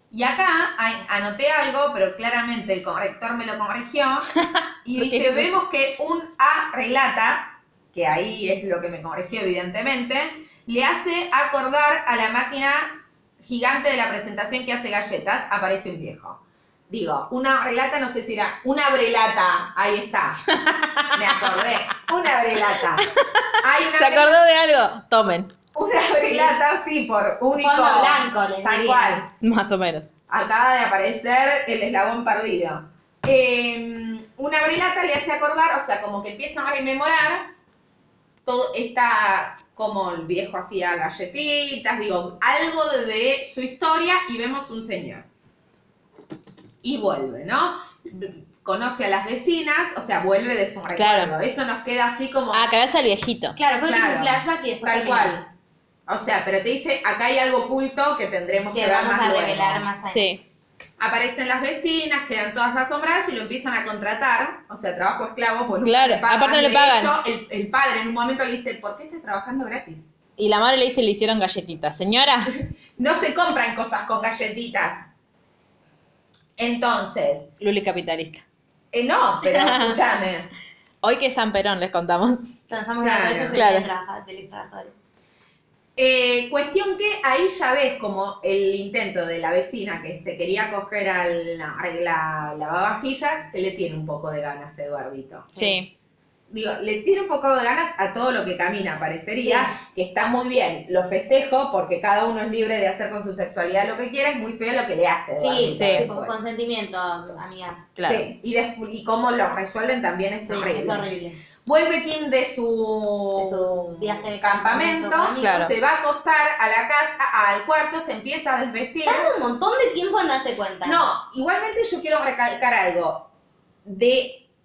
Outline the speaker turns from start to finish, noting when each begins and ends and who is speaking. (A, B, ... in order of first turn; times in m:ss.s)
0:00.1-0:04.3 A
0:04.4-0:05.5 B
0:04.8-0:20.4 A
0:20.5-0:21.6 B
0:21.1-0:23.1 A
0:23.0-0:25.5 B
0:23.6-0:24.4 A
0:25.7-0:29.3 A
0:27.6-0:29.2 C
0:29.4-0:30.1 B
0:30.3-0:37.5 A
0:38.4-0:45.3 A
0:46.8-0:52.7 A
0:51.0-0:51.3 B
0:52.5-0:53.6 B
0:53.6-0:55.4 C
0:53.8-0:55.5 A
0:56.1-0:59.8 A
0:58.7-1:00.3 C
1:00.1-1:00.4 B
1:01.0-1:10.1 A
1:05.8-1:07.2 B
1:10.4-1:12.6 B
1:13.0-1:15.1 A
1:16.6-1:17.5 A
1:17.6-1:18.4 B
1:18.9-1:20.5 A
1:19.4-1:20.0 B
1:21.0-1:22.5 B
1:22.7-1:25.0 C
1:23.0-1:23.6 A
1:23.5-1:23.9 B
1:26.0-1:35.6 A
1:35.6-1:35.8 C
1:35.6-1:35.9 B
1:36.5-1:46.4 A
1:39.4-1:39.8 C
1:45.4-1:47.9 C
1:45.7-1:46.0 B
1:48.0-1:48.3 B
1:48.0-1:51.0 A
1:50.5-1:51.4 C
1:51.6-1:59.3 A
1:53.4-1:55.7 C
1:55.4-1:55.7 B
1:59.0-2:01.1 C
2:00.8-2:03.3 A
2:03.8-2:04.4 A